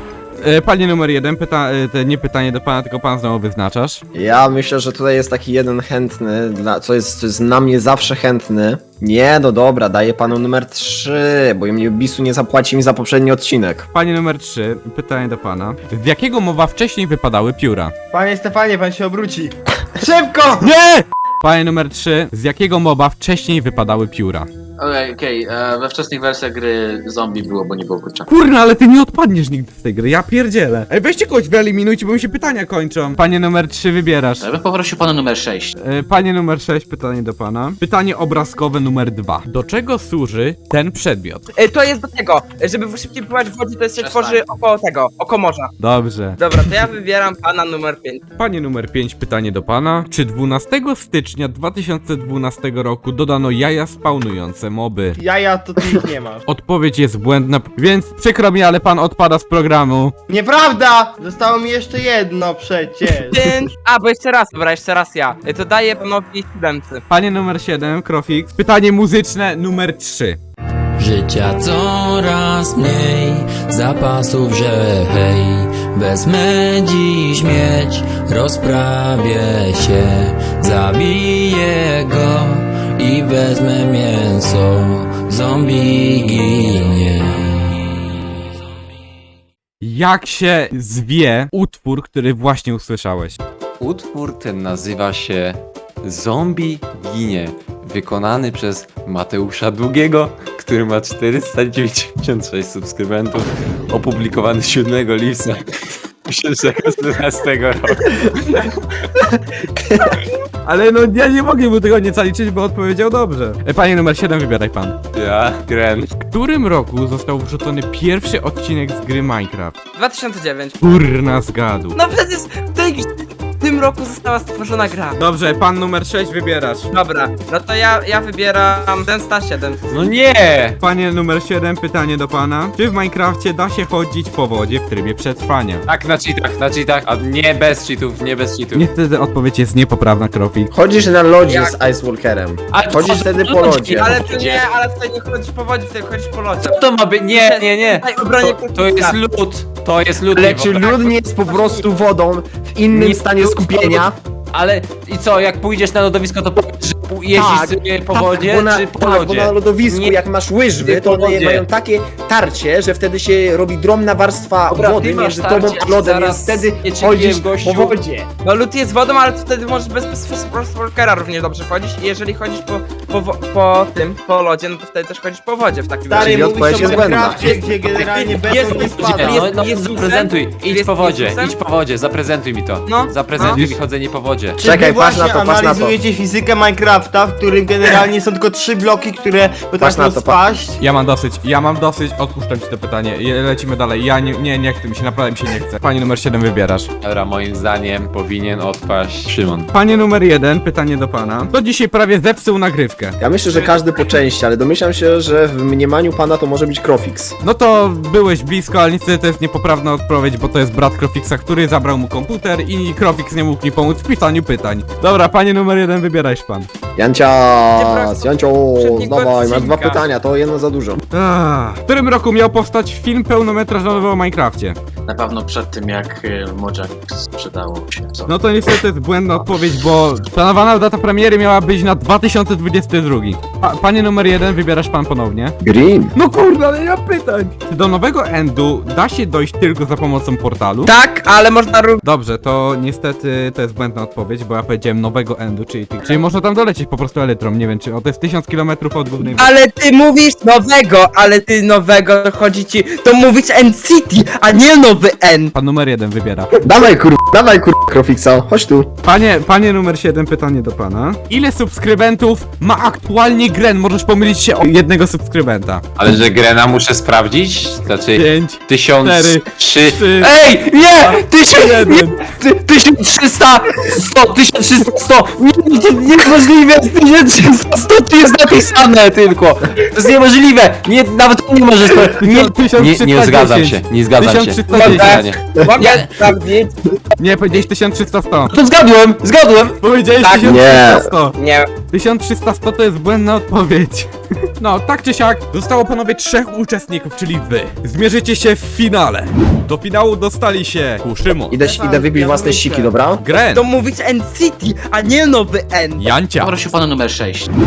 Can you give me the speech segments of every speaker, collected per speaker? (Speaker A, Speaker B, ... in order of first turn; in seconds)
Speaker A: 0.4-4.0, 13.9-17.9, 20.6-24.5, 28.2-34.5, 35.8-41.5, 45.8-46.4, 48.4-55.2, 56.5-60.1, 67.1-70.4, 89.8-93.4, 110.6-115.0, 116.2-119.8, 120.8-122.0, 125.2-126.9, 130.8-135.8, 138.7-140.7, 183.5-183.7, 190.8-196.9, 199.7-203.8, 207.4-216.7, 221.1-224.8, 228.2-235.6, 236.1-240.9, 242.0-249.5, 255.5-256.5, 259.0-265.8, 268.1-270.3, 271.0-272.2, 282.1-285.1, 287.2-288.5, 289.8-301.5, 303.2-303.6, 306.0-306.6
Speaker B: 4.1-13.8, 140.7-144.3, 150.3-154.1, 157.3-168.3, 176.2-177.6, 184.6-185.9, 189.8-190.4, 203.2-207.3, 216.9-221.0, 235.6-236.1, 256.6-258.9, 290.4-291.1, 301.5-303.2
Speaker C: 18.1-20.6, 55.2-56.4, 60.3-63.5, 176.1-179.4, 184.6-190.8, 301.8-302.9
Speaker D: 24.8-28.3, 34.4-35.7, 44.0-44.4, 225.1-228.3, 306.4-307.5
Speaker E: 41.5-45.7, 46.4-48.2, 63.3-67.0, 120.0-120.9, 121.9-125.2, 126.9-130.0, 141.4-141.7, 143.9-149.2, 151.5-151.8, 160.8-161.4, 168.4-177.5, 178.1-181.6, 182.8-183.7, 217.8-220.0, 240.8-242.0, 249.2-255.5, 284.7-286.7, 290.2-290.6, 291.3-291.8, 301.6-302.2, 303.5-306.1
Speaker F: 71.0-87.9
Speaker G: 93.8-105.6, 106.3-108.4, 115.1-116.2, 129.9-130.8, 135.9-138.9, 142.7-144.6, 146.6-150.9, 152.9-160.2, 164.7-167.9, 178.5-184.6, 197.0-199.7, 265.9-286.1, 288.5-289.7